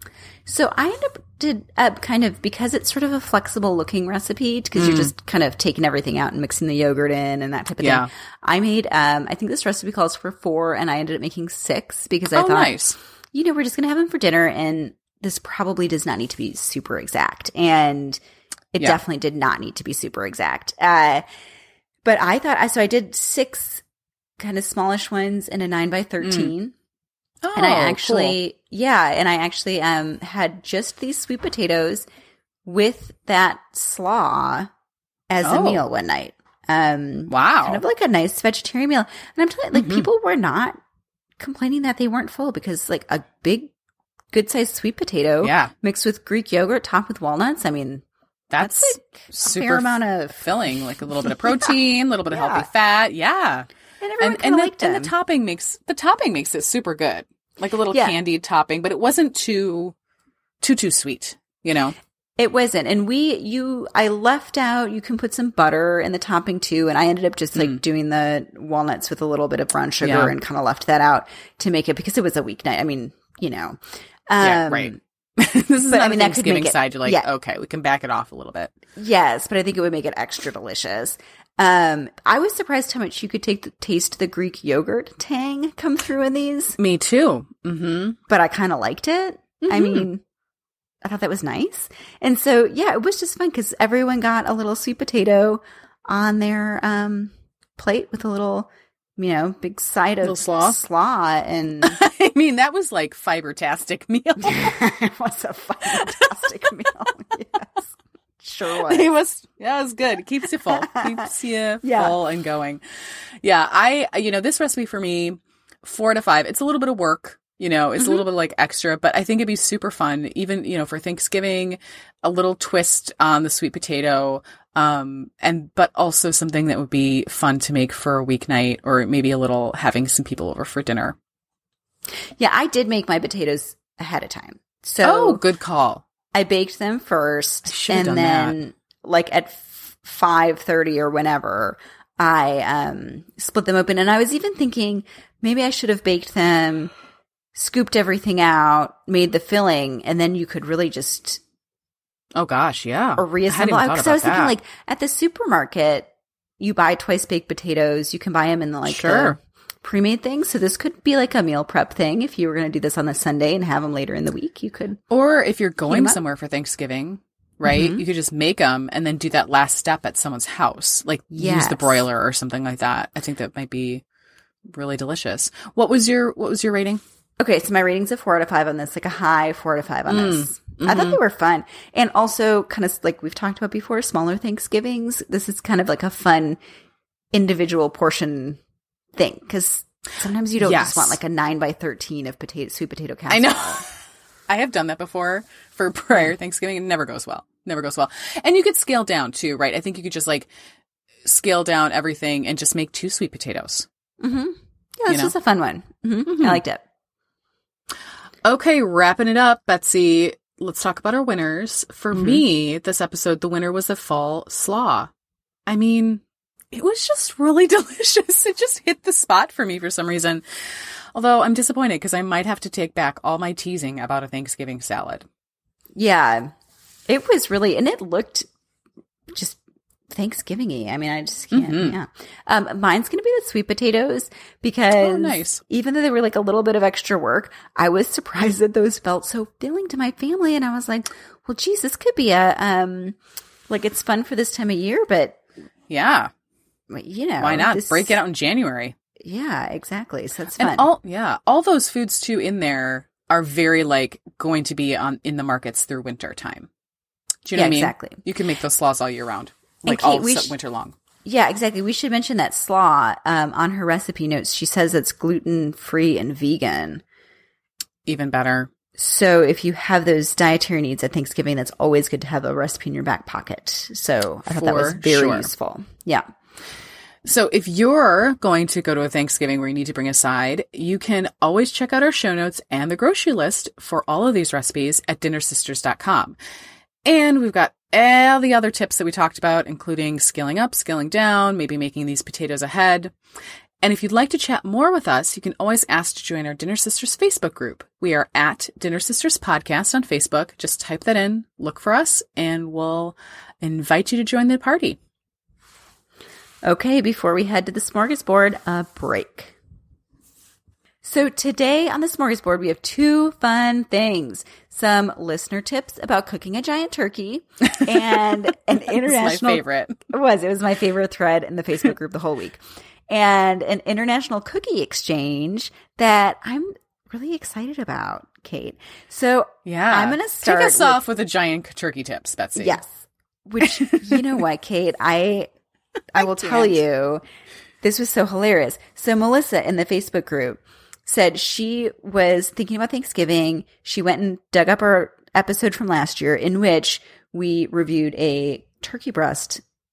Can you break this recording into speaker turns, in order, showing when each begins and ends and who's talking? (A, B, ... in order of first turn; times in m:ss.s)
0:00.5-0:12.8 A
0:04.8-0:05.1 B
0:07.8-0:08.1 B
0:12.3-0:13.0 B
0:13.3-0:18.2 A
0:18.7-0:21.2 A
0:22.0-0:23.8 A
0:24.4-0:26.7 A
0:26.2-0:26.5 B
0:27.4-0:28.4 B
0:27.6-0:32.1 A
0:32.6-0:34.7 A
0:35.3-0:40.8 A
0:35.4-0:35.8 B
0:37.3-0:37.8 B
0:39.7-0:40.1 B
0:41.4-0:43.7 A
0:44.3-0:48.0 A
0:45.4-0:45.7 B
0:48.5-0:53.7 B
0:48.6-0:50.5 A
0:51.2-0:51.7 A
0:52.3-0:52.7 A
0:54.0-0:55.1 A
0:54.2-1:00.0 B
0:57.9-0:58.2 A
1:00.6-1:02.0 B
1:02.4-1:13.8 A
1:10.0-1:10.3 B
1:14.3-1:15.0 A
1:14.4-1:18.7 B
1:15.9-1:17.3 A
1:19.0-1:26.8 A
1:26.8-1:28.2 B
1:28.3-1:30.2 A
1:29.6-1:30.1 B
1:31.0-1:42.0 A
1:40.2-1:40.8 B
1:41.8-1:44.8 B
1:44.4-1:49.1 A
1:48.7-1:52.8 B
1:50.7-1:51.2 A
1:51.8-1:52.2 A
1:53.4-2:11.2 B
1:58.0-1:58.2 A
2:12.4-2:15.4 A
2:15.0-2:16.0 B
2:16.3-2:26.9 A
2:17.7-2:18.6 B
2:27.5-2:31.4 A
2:32.4-2:34.6 B
2:33.2-2:45.0 A
2:38.8-2:39.4 B
2:45.1-2:54.0 B
2:45.9-2:46.2 A
2:47.6-2:48.0 A
2:51.3-2:52.0 A
2:54.7-2:57.0 B
2:57.4-3:06.6 A
3:00.1-3:01.2 B
3:07.3-3:08.6 A
3:09.2-3:13.8 A
3:10.6-3:11.2 B
3:13.3-3:13.9 B
3:14.5-3:20.5 B
3:21.2-3:23.9 B
3:24.2-3:26.8 A
3:26.2-3:26.6 B
3:28.4-3:35.1 B
3:32.1-3:32.4 A
3:35.7-3:45.3 B
3:46.0-3:46.5 A
3:47.1-3:48.5 A
3:49.3-3:49.6 A
3:50.1-4:03.2 A
3:51.5-3:52.0 B
3:55.0-3:55.6 B
4:03.7-4:05.4 A
4:05.9-4:06.3 B
4:06.9-4:08.2 A
4:07.4-4:09.0 B
4:09.2-4:10.9 A
4:10.6-4:16.7 B
4:17.4-4:21.0 B
4:17.6-4:18.2 A
4:19.8-4:20.6 A
4:21.2-4:27.0 A
4:28.1-4:28.7 B
4:29.0-4:36.3 A
4:34.5-4:35.5 B
4:37.2-4:46.4 B
4:47.0-4:53.1 B
4:53.8-5:05.0 B
5:06.6-5:09.6 A
5:11.0-5:31.0 A
5:18.9-5:20.0 B
5:29.7-5:32.8 B
5:32.6-5:35.5 A
5:33.6-5:34.2 B
5:36.1-5:37.2 A
5:36.2-5:36.8 B
5:37.8-5:49.6 A